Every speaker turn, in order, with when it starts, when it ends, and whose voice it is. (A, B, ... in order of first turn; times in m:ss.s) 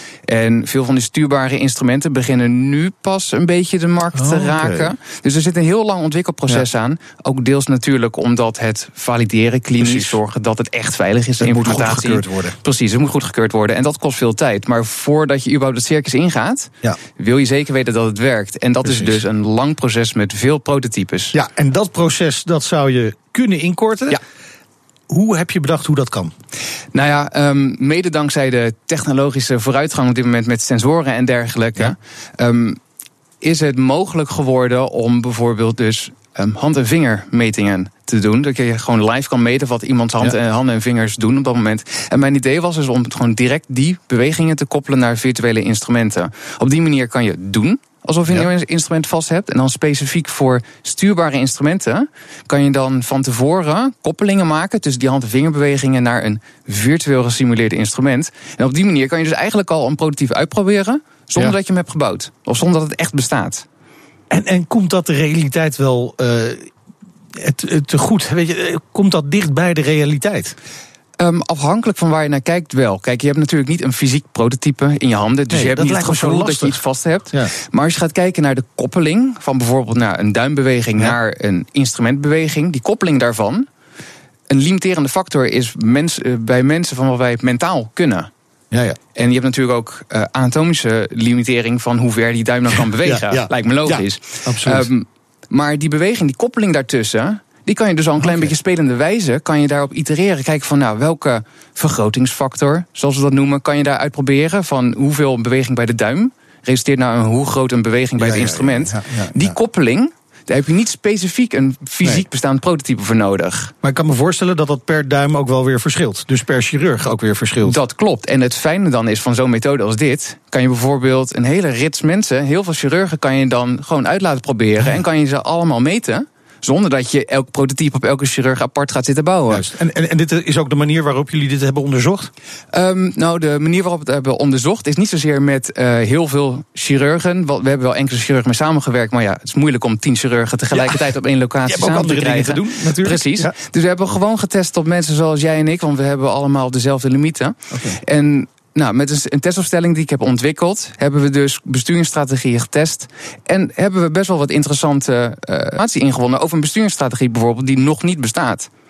0:00.3-0:21.3 A
0:04.1-0:04.9 B
0:09.8-0:10.2 B
0:11.4-0:12.6 B
0:18.8-0:19.2 B
0:21.3-0:24.2 B
0:25.1-0:26.3 B
0:26.9-0:32.8 A
0:33.4-1:03.6 A
1:04.3-1:06.7 B
1:07.4-1:10.5 B
1:11.2-1:23.7 A
1:15.5-1:16.8 B
1:24.5-1:28.3 A
1:28.7-1:29.0 B
1:29.2-1:53.7 A
1:33.0-1:34.9 B
1:38.2-1:38.5 B
1:48.2-1:49.5 B
1:53.8-1:57.8 B
1:57.6-2:09.7 A
2:09.5-2:12.3 B
2:12.7-2:38.7 A
2:20.7-2:21.0 B
2:21.6-2:23.5 B
2:27.7-2:28.0 B